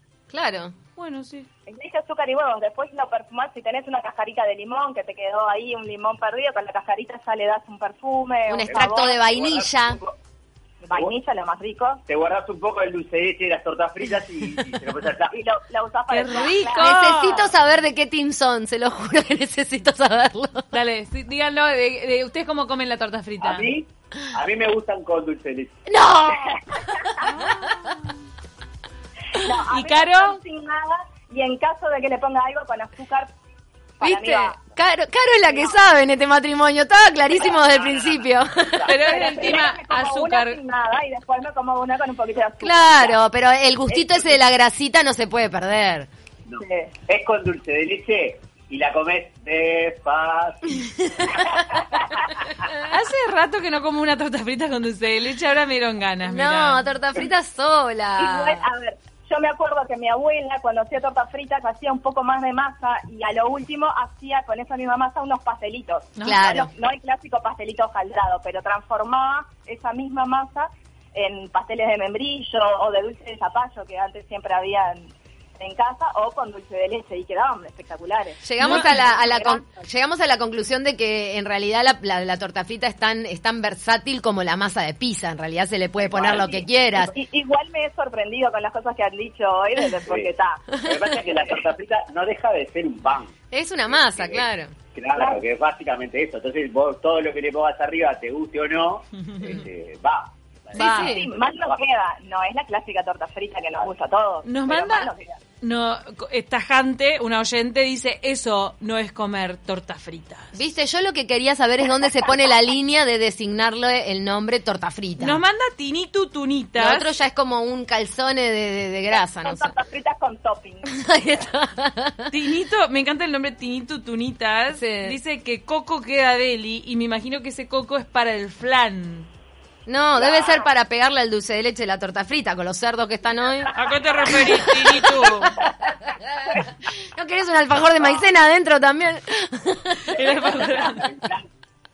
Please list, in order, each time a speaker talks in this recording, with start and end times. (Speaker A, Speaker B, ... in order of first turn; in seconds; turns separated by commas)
Speaker A: 0.3-0.7, Speaker B: 1.0-1.5, Speaker C: 1.7-9.2, Speaker A: 8.5-10.0, Speaker D: 8.7-10.1, Speaker C: 10.8-12.0, Speaker D: 12.1-15.3, Speaker C: 15.3-16.9, Speaker B: 16.1-17.5, Speaker A: 16.8-20.7, Speaker B: 20.7-23.7, Speaker D: 23.4-25.8, Speaker A: 25.9-27.7, Speaker C: 26.5-27.2, Speaker B: 27.2-28.0, Speaker C: 29.4-33.3, Speaker B: 29.5-30.4, Speaker C: 34.0-34.5, Speaker A: 34.0-38.9, Speaker D: 37.6-38.1, Speaker D: 38.7-39.3, Speaker B: 38.9-40.6, Speaker C: 38.9-43.2, Speaker A: 42.6-46.1, Speaker C: 43.9-44.4, Speaker D: 46.5-51.1, Speaker C: 46.6-46.9, Speaker B: 52.8-56.8, Speaker A: 56.2-58.6, Speaker C: 58.2-79.8, Speaker A: 66.2-66.7, Speaker A: 78.4-87.1, Speaker B: 78.6-79.1, Speaker D: 86.0-86.6, Speaker C: 86.4-90.6, Speaker D: 90.0-93.3, Speaker A: 93.5-94.7, Speaker D: 93.9-101.7, Speaker B: 99.2-99.6, Speaker A: 100.7-101.2, Speaker B: 100.7-101.2, Speaker C: 100.8-105.4, Speaker B: 104.4-105.1, Speaker B: 105.6-110.5, Speaker A: 110.5-115.4, Speaker B: 115.2-117.1, Speaker A: 116.8-119.7, Speaker C: 119.1-120.9, Speaker A: 120.8-122.3, Speaker B: 122.3-129.3, Speaker A: 124.7-125.2, Speaker A: 129.9-133.7, Speaker C: 130.2-130.6, Speaker B: 133.7-135.5, Speaker A: 134.2-140.3, Speaker B: 140.1-141.1, Speaker D: 140.5-141.5